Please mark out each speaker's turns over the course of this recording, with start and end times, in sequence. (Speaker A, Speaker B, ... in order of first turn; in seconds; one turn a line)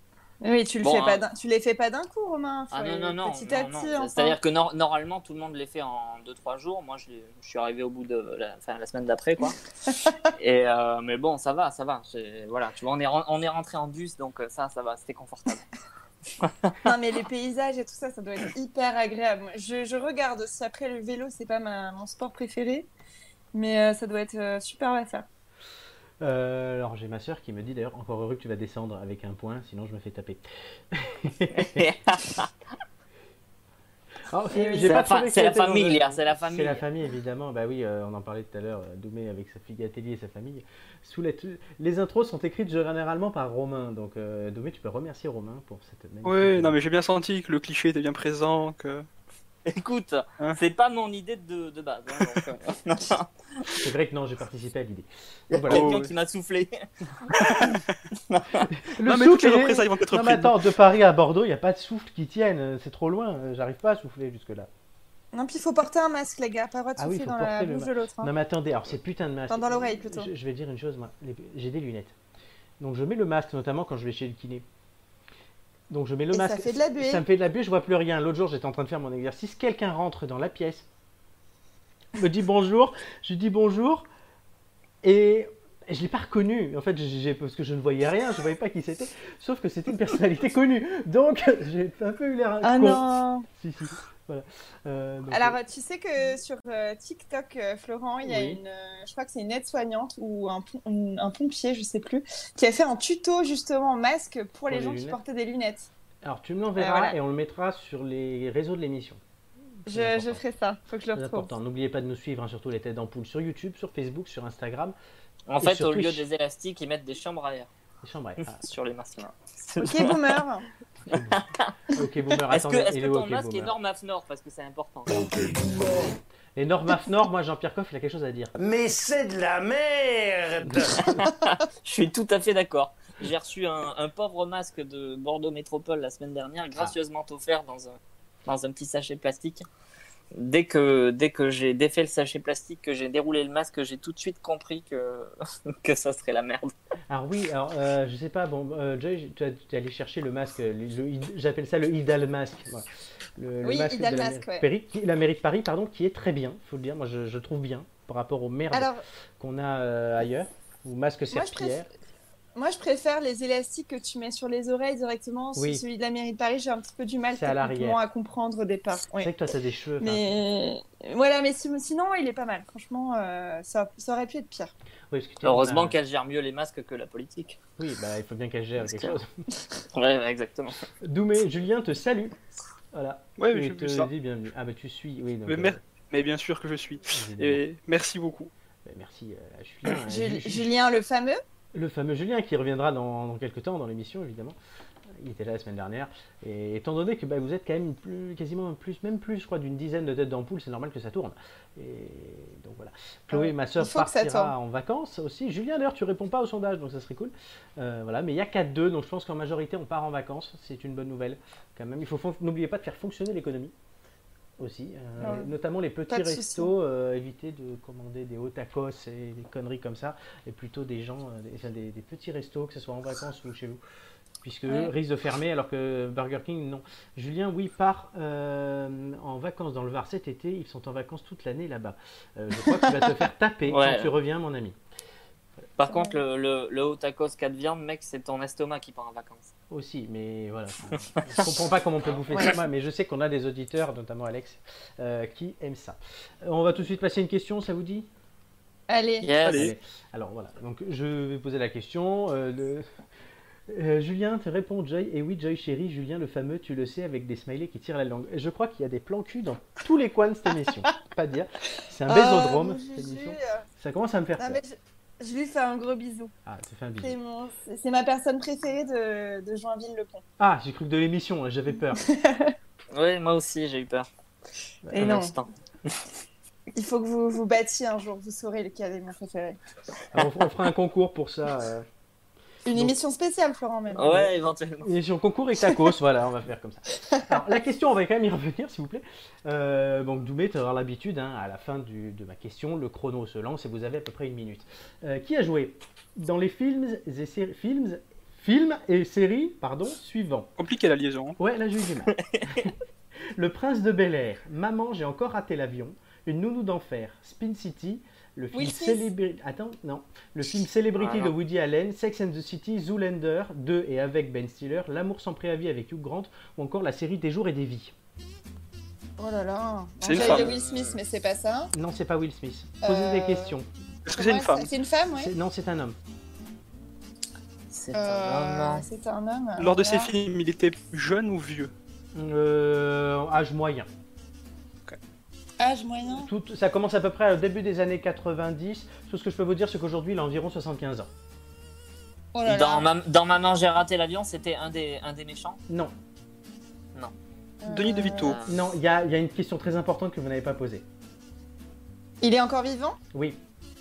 Speaker A: 0.4-4.4
Speaker B: 0.8-1.2
Speaker B: 2.7-9.6
Speaker B: 10.3-15.6
Speaker B: 16.4-16.7
Speaker A: 16.8-22.9
Speaker A: 23.5-25.2
Speaker C: 26.2-31.9
Speaker B: 31.5-32.5
Speaker C: 34.3-46.8
Speaker A: 34.5-35.0
Speaker B: 34.8-36.8
Speaker D: 46.2-49.0
Speaker B: 49.7-53.3
Speaker C: 53.8-56.0
Speaker B: 55.5-57.8
Speaker D: 55.7-56.1
Speaker D: 57.3-57.9
Speaker B: 58.3-58.7
Speaker C: 58.8-64.7
Speaker D: 59.0-60.6
Speaker A: 65.3-68.3
Speaker C: 67.0-72.1
Speaker A: 69.5-70.3
Speaker C: 72.8-74.6
Speaker C: 75.9-80.8
Speaker A: 76.3-77.2
Speaker C: 82.2-84.1
Speaker C: 85.0-95.6
Speaker A: 92.6-93.5
Speaker A: 95.3-105.9
Speaker C: 98.2-98.6
Speaker C: 104.7-105.2
Speaker C: 106.2-109.2
Speaker B: 106.8-107.1
Speaker C: 109.8-110.4
Speaker A: 109.8-111.5
Speaker C: 111.1-115.0
Speaker B: 115.5-117.7
Speaker C: 115.6-116.2
Speaker C: 118.0-118.7
Speaker B: 118.4-120.4
Speaker A: 119.8-120.6
Speaker C: 121.0-123.7
Speaker B: 121.1-121.7
Speaker B: 122.5-125.3
Speaker E: 125.2-126.2
Speaker C: 126.5-128.5
Speaker E: 128.6-131.1
Speaker C: 130.7-131.1
Speaker B: 131.1-137.9
Speaker B: 138.4-139.6
Speaker B: 140.3-146.7
Speaker C: 147.1-161.9
Speaker A: 153.6-154.7
Speaker A: 158.7-159.0
Speaker A: 161.3-161.8
Speaker A: 162.6-169.3
Speaker C: 165.6-165.8
Speaker C: 167.3-168.0
Speaker C: 169.2-170.4
Speaker A: 170.0-174.7
Speaker C: 175.1-176.0
Speaker B: 175.4-177.6
Speaker C: 177.8-179.3
Speaker B: 178.8-179.2
Speaker B: 179.9-180.8
Speaker C: 181.0-182.3
Speaker C: 182.9-185.8
Speaker D: 183.4-184.1
Speaker D: 185.4-188.5
Speaker C: 187.1-187.6
Speaker C: 188.8-190.7
Speaker A: 190.1-191.4
Speaker C: 191.7-194.6
Speaker C: 195.2-213.7
Speaker A: 203.3-204.5
Speaker C: 214.6-223.8
Speaker A: 215.2-215.5
Speaker A: 216.1-216.7
Speaker C: 224.4-234.8
Speaker B: 233.7-234.1
Speaker B: 235.8-239.5
Speaker A: 235.8-236.2
Speaker C: 239.7-248.1
Speaker A: 248.9-249.3
Speaker B: 249.2-249.7
Speaker C: 249.4-252.9
Speaker D: 249.4-249.7
Speaker C: 253.7-264.6
Speaker A: 262.1-263.6
Speaker A: 264.4-266.3
Speaker C: 266.4-267.1
Speaker A: 267.0-270.2
Speaker C: 270.4-272.0
Speaker A: 271.9-272.5
Speaker B: 272.9-274.1
Speaker C: 274.8-275.1
Speaker A: 274.9-275.3
Speaker B: 275.0-275.5
Speaker A: 276.7-279.6
Speaker C: 280.1-281.9
Speaker A: 282.6-284.3
Speaker B: 283.9-284.9
Speaker C: 284.8-300.5
Speaker A: 287.0-287.4
Speaker D: 300.6-301.4
Speaker C: 301.4-302.7
Speaker B: 302.1-302.7
Speaker C: 303.4-317.9
Speaker A: 308.5-309.0
Speaker B: 311.0-311.3
Speaker A: 319.2-321.7
Speaker D: 320.0-320.5
Speaker B: 320.1-321.0
Speaker C: 321.7-323.7
Speaker A: 322.8-323.6
Speaker D: 324.1-324.7
Speaker A: 324.1-325.3
Speaker C: 325.1-326.0
Speaker B: 327.7-328.8
Speaker A: 327.9-330.1
Speaker D: 329.6-331.7
Speaker C: 332.1-333.9
Speaker A: 335.6-336.3
Speaker C: 336.2-341.1
Speaker A: 342.3-342.9
Speaker B: 342.4-345.6
Speaker C: 345.7-345.9
Speaker A: 347.6-348.4
Speaker D: 347.7-348.4
Speaker B: 348.2-348.6
Speaker C: 348.4-350.8
Speaker A: 352.2-353.0
Speaker C: 353.1-353.4